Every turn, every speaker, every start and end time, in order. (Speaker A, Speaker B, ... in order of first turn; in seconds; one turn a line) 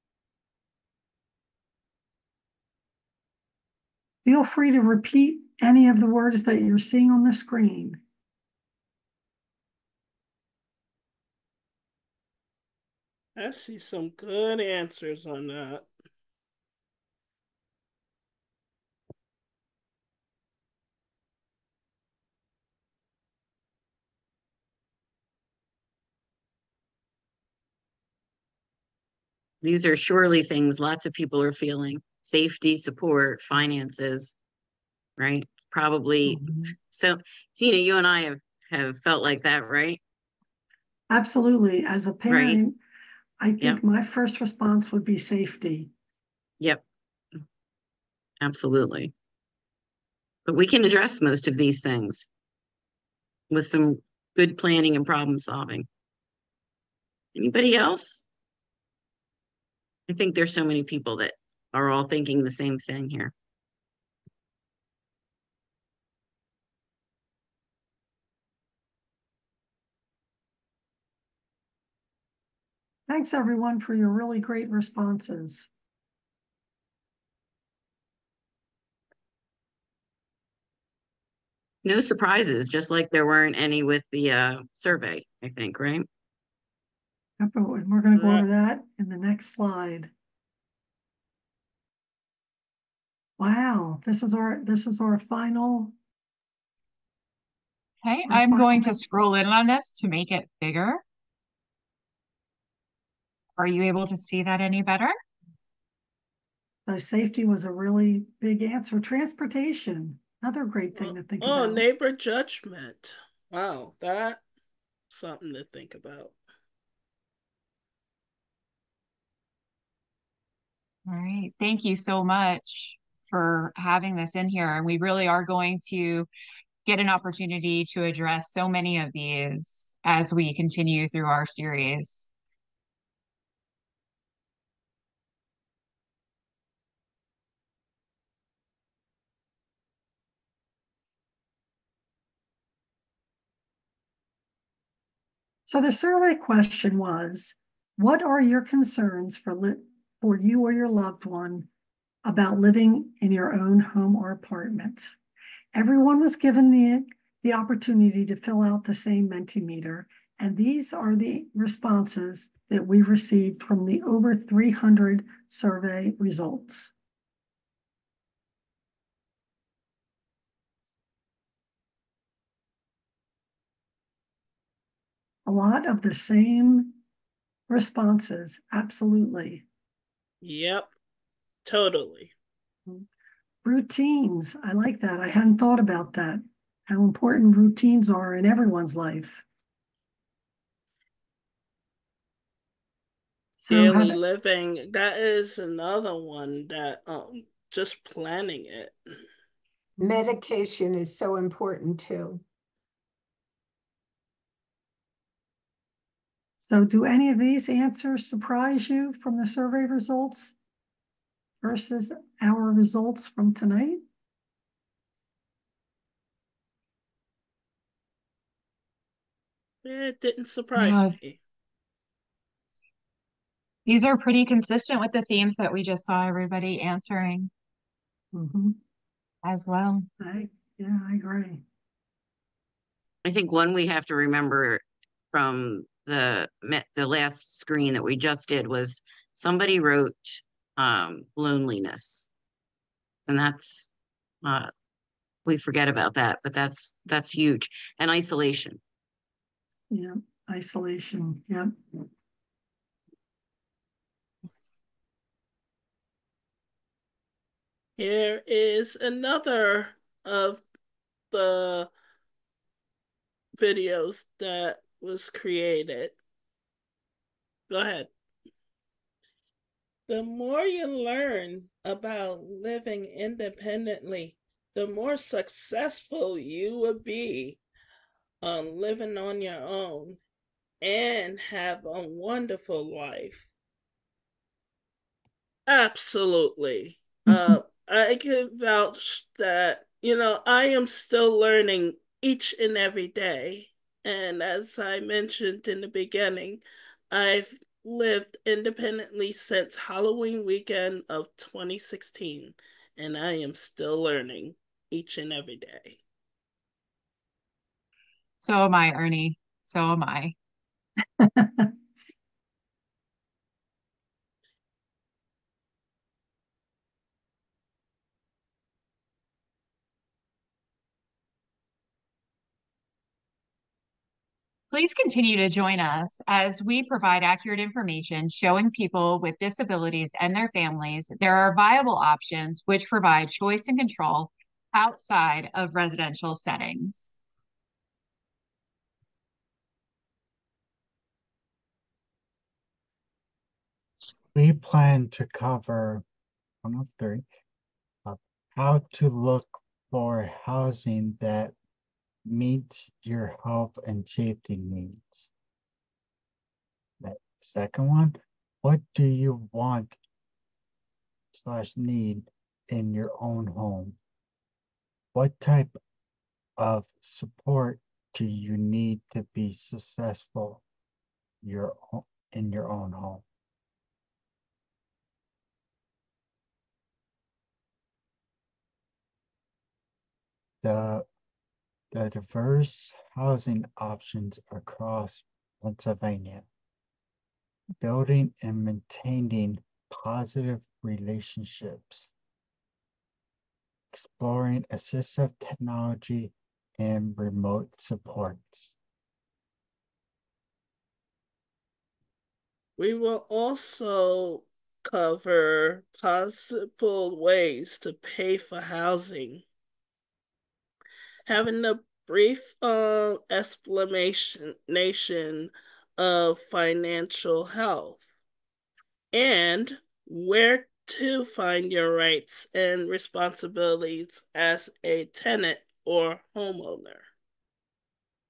Speaker A: 4.2-8.0
Speaker B: 13.4-15.9
Speaker C: 29.6-34.4
Speaker C: 35.2-40.0
Speaker A: 41.1-42.8
Speaker C: 42.3-42.6
Speaker A: 43.4-45.9
Speaker C: 48.4-49.1
Speaker C: 50.5-52.3
Speaker C: 53.5-55.9
Speaker C: 57.4-58.2
Speaker C: 60.1-63.3
Speaker A: 73.1-75.7
Speaker C: 81.8-86.1
Speaker A: 87.4-90.1
Speaker B: 88.2-88.5
Speaker A: 93.4-95.9
Speaker D: 98.0-101.0
Speaker A: 98.3-99.0
Speaker D: 103.6-105.1
Speaker A: 106.9-111.8
Speaker B: 111.0-114.4
Speaker B: 115.1-116.3
Speaker D: 121.1-126.3
Speaker D: 126.9-132.3
Speaker A: 145.7-151.7
Speaker A: 152.2-155.2
Speaker A: 155.7-166.9
Speaker A: 175.5-177.0
Speaker A: 177.7-179.7
Speaker B: 180.4-180.9
Speaker B: 181.7-182.3
Speaker A: 183.6-189.4
Speaker A: 193.6-194.2
Speaker B: 193.7-199.0
Speaker E: 200.0-202.4
Speaker A: 206.6-210.6
Speaker A: 211.6-214.0
Speaker B: 219.8-221.4
Speaker D: 220.8-221.1
Speaker D: 223.9-227.5
Speaker A: 228.3-228.8
Speaker D: 229.4-230.1
Speaker A: 230.2-231.6
Speaker C: 233.2-242.3
Speaker C: 243.3-243.9
Speaker C: 244.4-244.7
Speaker C: 245.4-248.8
Speaker A: 249.9-251.7
Speaker B: 258.0-260.6
Speaker B: 261.3-261.9
Speaker B: 263.6-266.2
Speaker B: 267.7-268.1
Speaker B: 270.1-277.6
Speaker B: 278.4-280.2
Speaker B: 280.8-283.5
Speaker B: 285.7-306.0
Speaker A: 287.3-287.6
Speaker D: 308.4-310.3
Speaker A: 311.2-311.7
Speaker D: 324.7-337.2
Speaker F: 344.3-346.0
Speaker F: 346.6-347.3
Speaker F: 348.1-351.5
Speaker F: 352.2-355.3
Speaker F: 357.0-360.0
Speaker F: 361.3-364.0
Speaker F: 365.1-365.8
Speaker F: 366.6-370.6
Speaker F: 371.4-373.2
Speaker F: 380.6-381.1
Speaker F: 381.9-386.5
Speaker F: 387.8-392.1
Speaker F: 393.9-398.8
Speaker B: 402.8-409.4
Speaker B: 411.3-418.1
Speaker B: 419.1-427.1